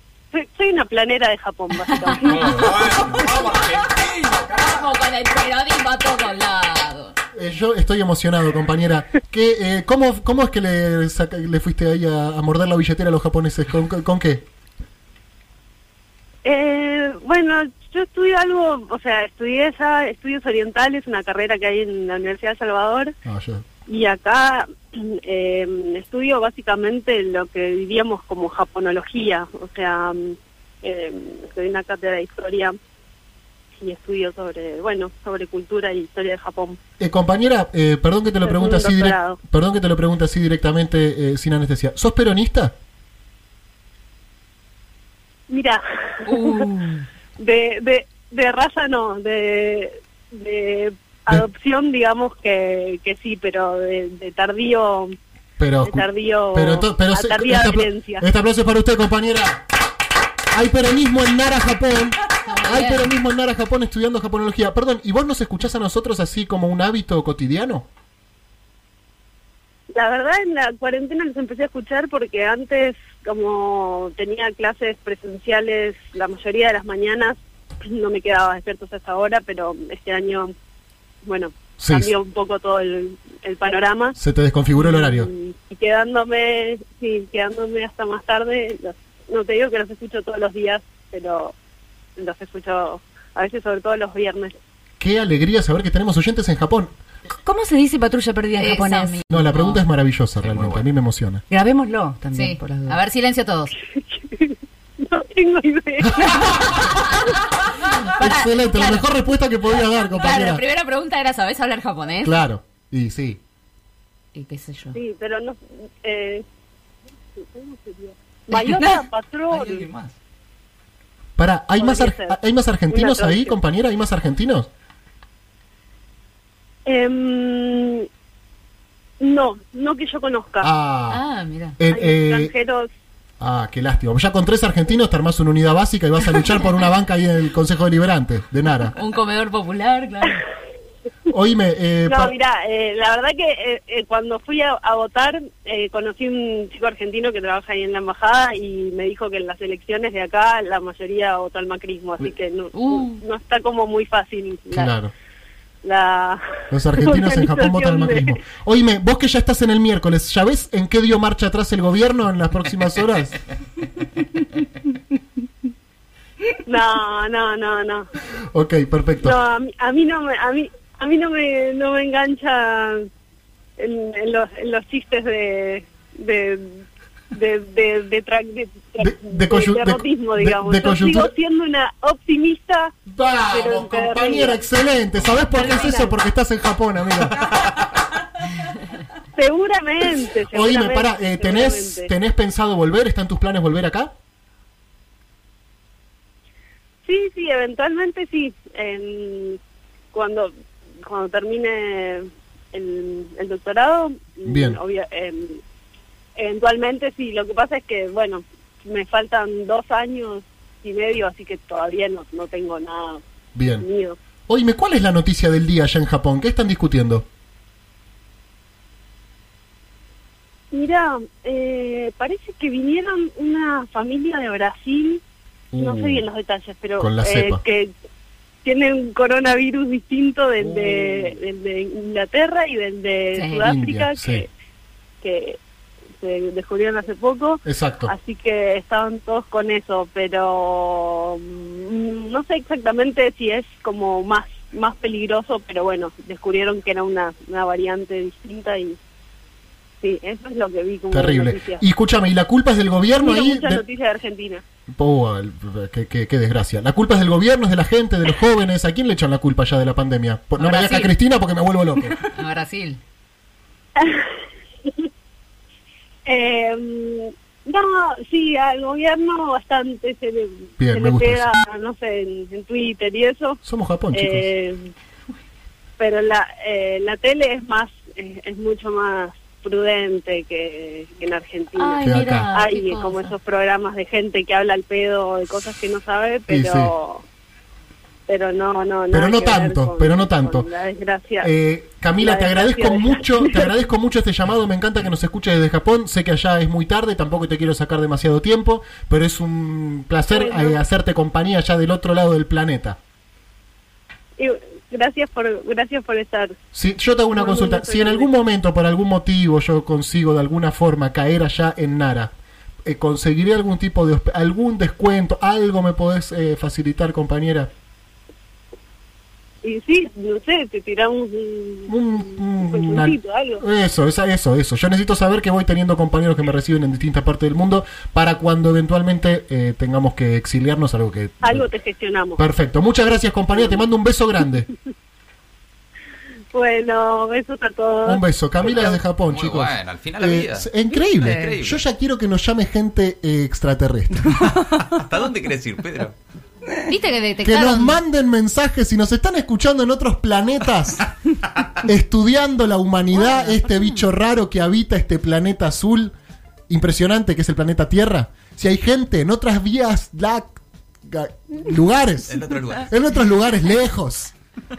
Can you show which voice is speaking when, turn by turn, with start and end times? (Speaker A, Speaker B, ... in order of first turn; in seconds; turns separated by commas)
Speaker A: 0.3-2.7, Speaker B: 1.7-3.6, Speaker C: 2.2-4.9, Speaker B: 4.4-7.1, Speaker D: 7.3-14.4, Speaker A: 16.4-23.1, Speaker D: 23.2-23.6, Speaker A: 23.9-32.8, Speaker A: 33.8-36.8, Speaker D: 37.0-42.7, Speaker A: 38.5-39.4, Speaker A: 45.5-45.8, Speaker B: 46.3-46.6, Speaker A: 46.3-46.7, Speaker A: 47.4-55.1, Speaker D: 55.6-59.6, Speaker A: 55.9-58.2, Speaker D: 60.5-67.9, Speaker B: 62.5-63.1, Speaker A: 69.9-77.4, Speaker A: 77.9-80.5, Speaker A: 81.2-84.2, Speaker D: 81.8-82.1, Speaker D: 84.2-85.3, Speaker A: 84.8-91.5, Speaker A: 92.2-94.5, Speaker D: 95.0-96.9, Speaker E: 97.5-99.5, Speaker B: 98.7-99.7, Speaker D: 99.3-101.4, Speaker C: 100.4-100.8, Speaker E: 101.5-103.0, Speaker B: 102.3-103.7, Speaker A: 104.2-106.0, Speaker D: 106.5-106.8, Speaker B: 108.0-109.1, Speaker D: 108.0-110.6, Speaker B: 110.1-112.3, Speaker D: 112.2-113.4, Speaker B: 114.3-115.0, Speaker A: 115.0-116.4, Speaker A: 117.5-119.8, Speaker B: 118.5-119.1, Speaker C: 119.5-120.2, Speaker D: 121.4-124.7, Speaker A: 121.8-122.2, Speaker A: 122.9-123.2, Speaker A: 126.9-128.1, Speaker A: 129.2-130.7, Speaker D: 130.6-131.2, Speaker B: 131.1-131.8, Speaker D: 131.8-132.5, Speaker A: 132.1-132.9, Speaker D: 133.4-138.9, Speaker B: 139.0-140.4, Speaker D: 141.3-142.3, Speaker A: 142.2-154.7, Speaker B: 152.7-153.3, Speaker D: 154.7-155.1, Speaker A: 155.8-156.4, Speaker D: 156.7-163.4, Speaker A: 157.0-158.2, Speaker A: 166.7-168.0, Speaker D: 168.5-169.4, Speaker A: 169.3-173.0, Speaker A: 173.8-176.7, Speaker A: 177.3-182.9, Speaker D: 179.0-181.3, Speaker D: 183.1-187.8, Speaker A: 183.6-184.6, Speaker A: 185.3-186.0, Speaker A: 189.4-192.1, Speaker D: 190.5-194.1, Speaker A: 197.1-199.6, Speaker A: 200.1-200.5, Speaker A: 201.1-205.6, Speaker D: 204.5-204.8, Speaker A: 206.4-213.2, Speaker D: 213.6-213.9, Speaker A: 213.8-214.2, Speaker D: 214.5-217.2, Speaker A: 220.7-225.2, Speaker D: 225.7-226.3, Speaker A: 225.8-227.9, Speaker D: 227.0-227.6, Speaker A: 228.7-234.4, Speaker D: 230.6-231.3, Speaker B: 230.7-231.1, Speaker B: 233.3-233.8, Speaker D: 233.6-234.4, Speaker A: 235.2-235.6, Speaker A: 236.2-237.6, Speaker D: 237.7-238.1, Speaker A: 238.1-249.0, Speaker A: 250.0-251.8, Speaker D: 251.1-253.8, Speaker A: 253.2-254.6, Speaker D: 254.9-262.2, Speaker B: 260.6-261.1, Speaker B: 262.4-263.0, Speaker A: 266.3-273.6, Speaker D: 270.8-271.5, Speaker D: 273.6-274.5, Speaker A: 274.2-274.8, Speaker A: 276.0-282.0, Speaker B: 281.7-283.4, Speaker D: 282.0-282.5, Speaker A: 282.5-287.2, Speaker D: 286.5-286.9, Speaker A: 288.3-291.5, Speaker D: 289.1-290.7, Speaker D: 291.4-303.0, Speaker A: 292.2-293.6, Speaker A: 300.4-300.6, Speaker A: 304.4-306.5, Speaker D: 306.7-312.3, Speaker A: 307.4-308.2, Speaker D: 312.9-317.7, Speaker A: 319.6-321.9, Speaker D: 321.9-331.7, Speaker A: 322.6-323.6, Speaker A: 331.5-332.4, Speaker D: 332.4-334.7, Speaker A: 336.5-338.2, Speaker D: 338.1-344.4, Speaker C: 338.7-341.8, Speaker E: 341.1-341.6, Speaker C: 344.4-346.1, Speaker B: 346.9-348.0, Speaker D: 347.4-351.1, Speaker D: 351.8-356.1, Speaker B: 353.1-354.1, Speaker D: 356.7-364.3, Speaker C: 362.3-362.9